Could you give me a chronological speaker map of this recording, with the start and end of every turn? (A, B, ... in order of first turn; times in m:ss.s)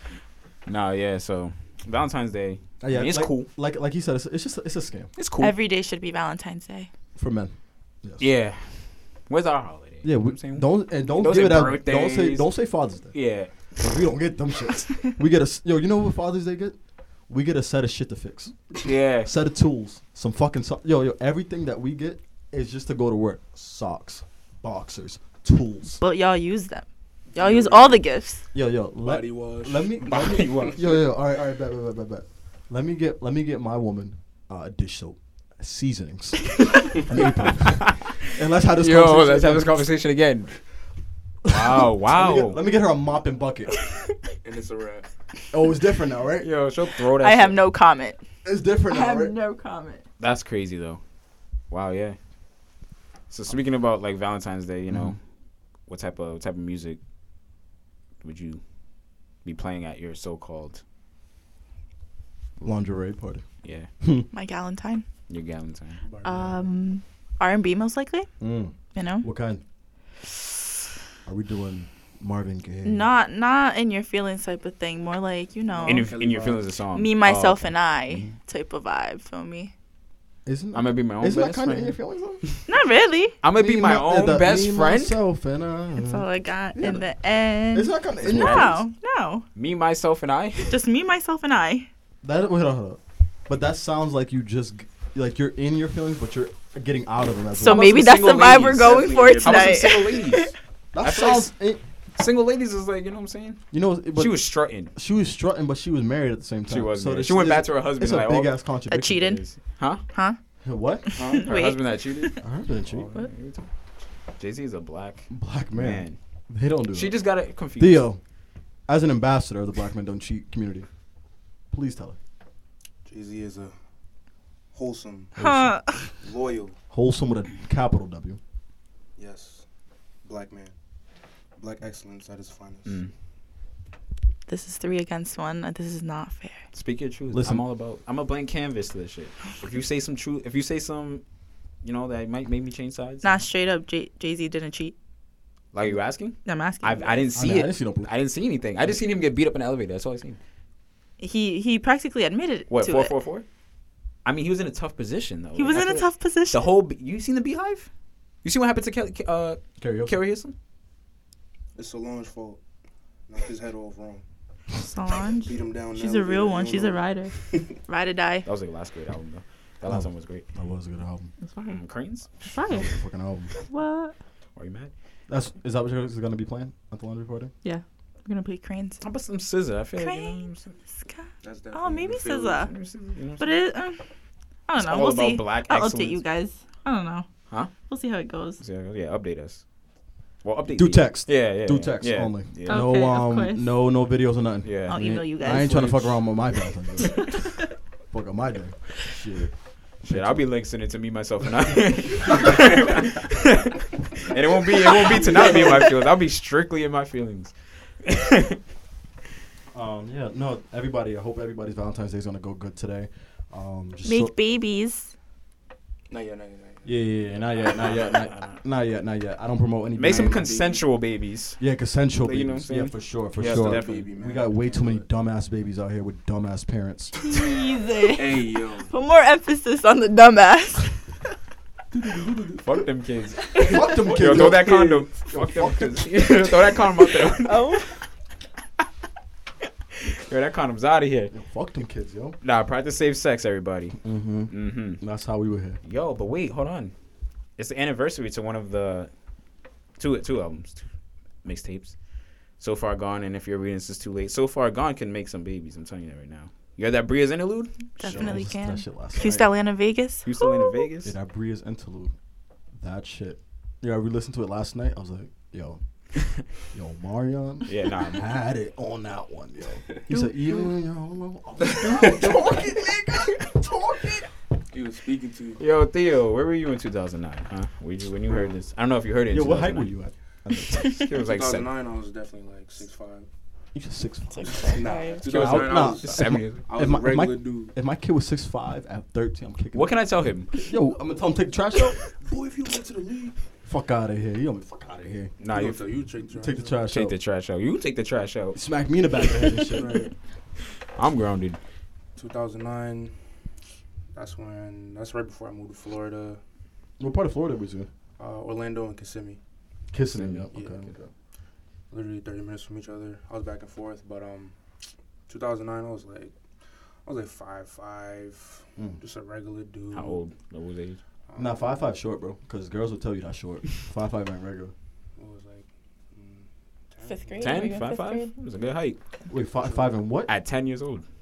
0:00.7-0:03.5 A
0:02.8-0:05.1 B
0:05.2-0:05.6 A
0:05.4-0:06.9 C
0:07.2-0:08.3 B
0:08.2-0:13.8 A
0:10.0-0:16.8 B
0:17.3-0:26.0 B
0:18.8-0:19.3 A
0:26.0-0:28.4 C
0:27.3-0:28.0 D
0:28.5-0:39.8 B
0:29.0-0:30.8 D
0:37.8-0:38.1 A
0:38.7-0:40.6 A
0:41.5-0:43.8 B
0:41.5-0:42.6 A
0:44.4-0:45.1 D
0:45.5-0:46.5 B
0:46.4-0:47.6 A
0:47.2-0:48.2 C
0:48.4-0:49.4 B
0:48.9-0:50.0 C
0:50.2-0:51.0 A
0:51.7-0:52.2 A
0:53.3-0:55.2 A
0:54.9-0:55.2 B
0:55.9-0:57.0 A
0:58.2-0:58.6 A
0:59.4-1:00.8 A
1:02.6-1:03.5 B
1:03.6-1:03.9 A
1:04.0-1:04.3 B
1:04.3-1:05.1 C
1:05.3-1:06.0 A
1:06.0-1:06.7 D
1:06.2-1:08.3 C
1:08.4-1:09.6 B
1:08.9-1:09.3 C
1:11.2-1:13.1 B
1:12.8-1:16.1 C
1:15.7-1:16.7 D
1:15.8-1:18.3 A
1:16.9-1:19.7 C
1:20.5-1:22.4 B
1:20.7-1:22.6 A
1:22.7-1:23.4 C
1:23.4-1:25.2 A
1:23.5-1:27.1 B
1:26.0-1:29.4 C
1:27.7-1:28.8 B
1:28.2-1:28.8 A
1:29.6-1:30.8 A
1:30.7-1:31.9 C
1:32.2-1:38.2 B
1:37.6-1:40.5 C
1:37.6-1:41.5 A
1:38.5-1:39.8 D
1:40.9-1:41.8 B
1:42.2-1:44.9 A
1:43.7-1:49.4 B
1:46.7-1:48.5 A
1:48.9-1:49.4 C
1:49.2-1:50.0 A
1:50.1-1:50.4 C
1:50.6-1:51.2 B
1:51.0-1:52.4 C
1:51.2-1:51.5 D
1:51.3-1:53.7 A
1:52.4-1:53.1 B
1:54.4-1:56.2 A
1:55.3-1:57.2 B
1:56.9-1:58.1 A
1:57.8-1:58.2 B
1:58.9-2:00.9 B
2:01.7-2:02.2 B
2:03.0-2:03.8 D
2:04.7-2:05.4 D
2:05.4-2:05.8 B
2:05.4-2:06.1 C
2:06.0-2:06.8 D
2:06.9-2:08.4 B
2:09.2-2:09.7 D
2:10.2-2:10.8 D
2:11.6-2:13.0 D
2:12.9-2:13.1 A
2:14.5-2:16.7 C
2:16.7-2:21.2 A
2:17.3-2:17.6 B
2:21.8-2:23.4 A
2:23.2-2:25.0 C
2:25.7-2:30.4 A
2:26.4-2:27.3 C
2:27.4-2:28.1 B
2:31.2-2:33.1 C
2:32.7-2:33.5 A
2:34.2-2:37.9 A
2:35.6-2:36.7 C
2:38.4-2:40.6 A
2:39.8-2:40.2 B
2:41.8-2:42.6 D
2:43.3-2:44.2 D
2:44.8-2:48.5 C
2:45.4-2:47.7 D
2:48.4-2:50.4 A
2:49.8-2:51.3 B
2:51.4-2:51.8 C
2:51.6-2:52.8 A
2:52.4-2:53.0 C
2:52.7-2:53.5 B
2:53.6-2:54.2 C
2:54.6-2:54.9 A
2:55.3-2:57.5 B
2:57.6-2:59.0 C
2:59.0-3:00.8 A
3:00.0-3:02.7 C
3:01.4-3:02.7 D
3:02.6-3:03.5 A
3:03.4-3:04.0 C
3:04.7-3:07.3 C
3:04.8-3:06.2 A
3:07.8-3:08.6 C
3:08.6-3:09.6 A
3:10.4-3:12.9 A
3:10.7-3:17.4 B
3:12.7-3:13.7 C
3:14.6-3:15.6 A
3:14.9-3:16.1 C
3:17.2-3:17.6 C
3:18.1-3:20.5 B
3:20.0-3:27.5 A
3:28.0-3:28.6 A
3:29.7-3:34.3 B
3:34.0-3:35.1 C
3:36.1-3:37.0 D
3:36.8-3:40.5 B
3:37.7-3:38.6 A
3:40.0-3:41.6 A
3:40.0-3:40.8 D
3:41.6-3:47.2 B
3:42.2-3:44.1 A
3:43.4-3:45.1 D
3:47.2-3:51.2 C
3:48.1-3:48.9 D
3:51.9-3:52.6 D
3:52.6-3:58.0 A
3:53.6-3:56.4 B
3:57.4-3:57.9 C
4:00.0-4:01.3 A
4:01.3-4:02.4 B
4:02.4-4:04.0 A
4:04.0-4:05.8 B
4:04.5-4:05.0 A
4:05.8-4:06.9 A
4:07.6-4:09.1 A
4:10.0-4:10.9 A
4:11.4-4:12.0 A
4:12.6-4:18.4 A
4:18.0-4:20.8 C
4:18.0-4:19.5 B
4:20.2-4:21.1 A
4:21.0-4:22.1 B
4:22.8-4:25.8 B
4:26.5-4:34.3 B
4:27.7-4:28.3 A
4:30.1-4:30.7 C
4:31.6-4:32.5 D
4:34.7-4:35.6 D
4:35.6-4:39.9 A
4:38.3-4:38.6 D
4:39.3-4:41.0 B
4:40.7-4:41.7 A
4:41.1-4:43.3 D
4:43.7-4:52.0 B
4:44.3-4:45.2 C
4:44.5-4:47.7 D
4:45.2-4:46.7 A
4:49.7-4:50.5 A
4:52.1-4:53.4 D
4:53.6-4:55.3 B
4:55.4-4:55.8 A
4:55.5-4:56.8 D
4:56.3-4:57.2 B
4:56.9-4:58.6 A
4:58.5-5:00.1 B
4:59.7-5:00.1 D
5:00.9-5:01.6 A
5:02.2-5:03.2 D
5:04.1-5:06.4 D
5:07.0-5:07.9 B
5:08.2-5:09.4 D
5:09.9-5:11.1 B
5:10.2-5:10.5 A
5:10.5-5:10.9 D
5:11.9-5:14.6 D
5:15.3-5:16.4 D
5:17.0-5:20.2 D
5:19.9-5:21.0 A
5:21.3-5:21.8 D
5:21.4-5:24.7 B
5:25.2-5:27.8 D
5:27.0-5:28.3 C
5:27.4-5:29.0 A
5:29.3-5:30.3 B
5:30.3-5:31.0 A